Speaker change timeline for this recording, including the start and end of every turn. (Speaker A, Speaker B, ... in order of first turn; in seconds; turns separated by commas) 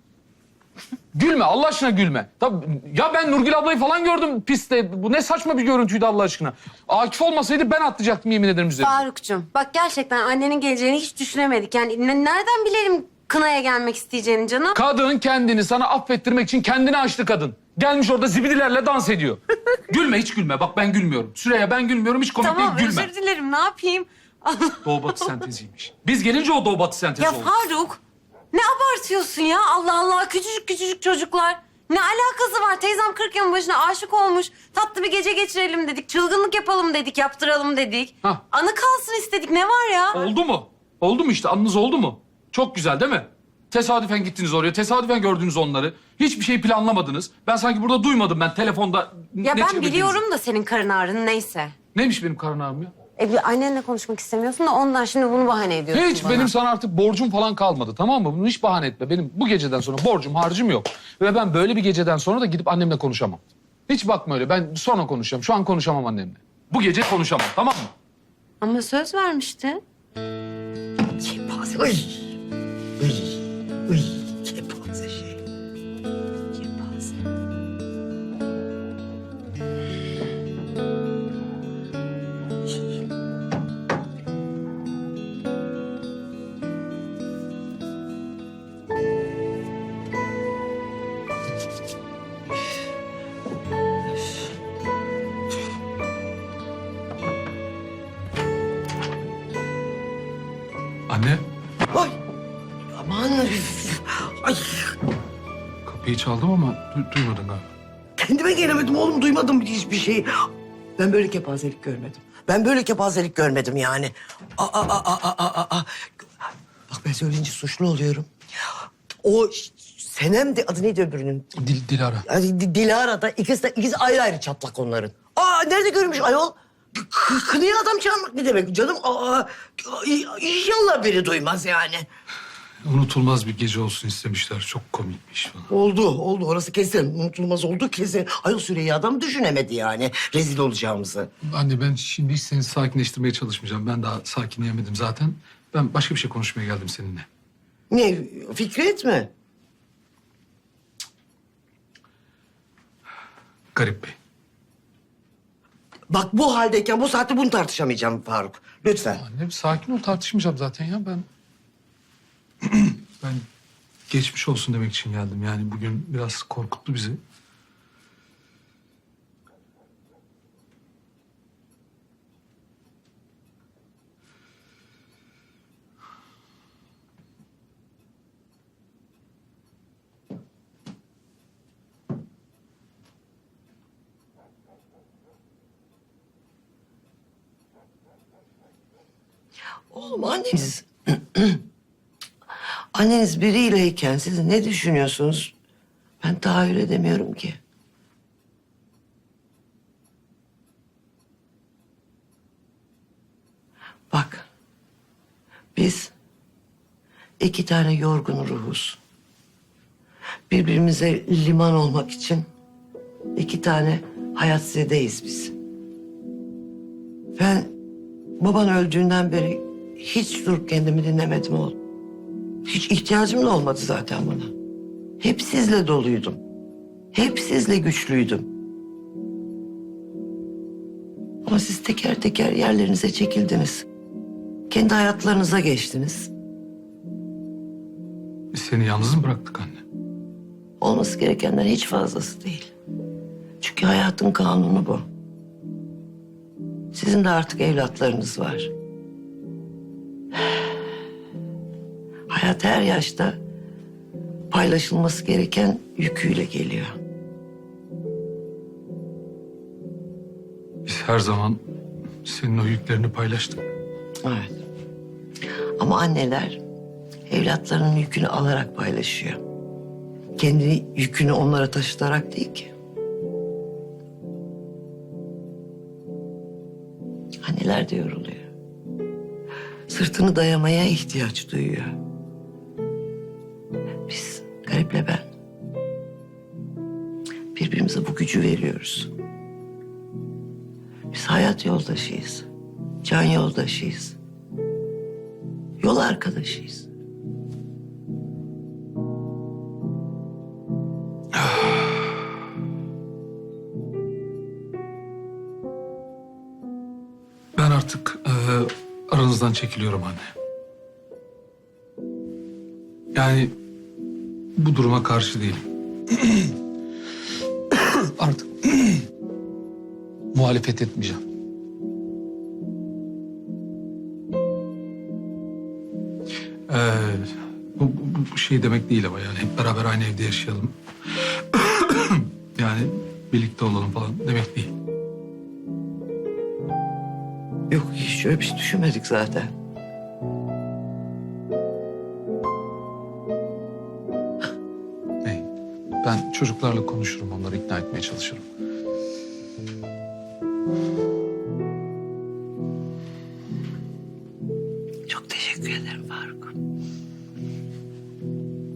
Speaker A: 1.1-9.0, Speaker B: 8.8-14.8, Speaker A: 14.7-23.1, Speaker B: 22.4-24.9, Speaker A: 24.8-27.6, Speaker B: 27.2-28.0, Speaker B: 28.5-40.2, Speaker A: 40.1-50.2, Speaker B: 49.4-51.7, Speaker A: 51.9-52.9, Speaker B: 53.2-56.5, Speaker A: 55.9-67.9, Speaker B: 68.6-69.8, Speaker C: 71.2-72.2, Speaker C: 73.0-75.4, Speaker B: 76.6-77.1, Speaker A: 101.1-101.4, Speaker C: 101.9-102.2, Speaker C: 102.9-105.0, Speaker A: 105.8-107.7, Speaker C: 108.2-116.2, Speaker C: 116.9-121.5, Speaker A: 121.6-122.2, Speaker C: 122.2-132.1, Speaker A: 132.8-135.7, Speaker C: 135.7-141.3, Speaker A: 141.4-147.3, Speaker C: 147.9-149.3, Speaker A: 153.7-154.1, Speaker C: 156.1-159.2, Speaker A: 159.2-161.2, Speaker A: 162.6-163.4, Speaker A: 164.1-167.2, Speaker C: 189.9-191.6, Speaker C: 192.9-195.5, Speaker C: 196.2-197.6, Speaker C: 204.1-204.5, Speaker C: 205.7-206.1, Speaker C: 207.4-209.0, Speaker C: 210.5-212.5, Speaker C: 213.3-215.6, Speaker C: 217.4-217.7, Speaker C: 218.4-221.8, Speaker C: 222.6-224.5, Speaker C: 225.2-226.4, Speaker C: 227.1-228.5, Speaker C: 231.4-233.9, Speaker C: 234.7-236.3, Speaker A: 238.5-239.8, Speaker C: 240.8-242.7, Speaker C: 243.6-245.1, Speaker C: 246.9-248.7, Speaker C: 252.3-253.4, Speaker C: 254.5-257.0, Speaker A: 260.9-261.6, Speaker A: 262.2-263.7, Speaker C: 264.2-264.6, Speaker C: 265.8-266.6, Speaker C: 267.3-269.4, Speaker C: 270.4-272.7, Speaker C: 277.4-278.5, Speaker C: 279.9-282.0, Speaker C: 284.1-285.3, Speaker C: 287.5-289.1, Speaker C: 291.1-292.5, Speaker C: 293.0-294.2, Speaker C: 295.8-296.9, Speaker A: 301.4-302.1, Speaker A: 307.6-310.3, Speaker A: 313.1-313.5, Speaker A: 314.6-316.5, Speaker A: 317.7-319.1, Speaker A: 320.3-321.2, Speaker A: 326.7-330.7, Speaker A: 331.5-334.7, Speaker C: 337.7-339.5, Speaker A: 346.0-348.4, Speaker C: 355.1-356.5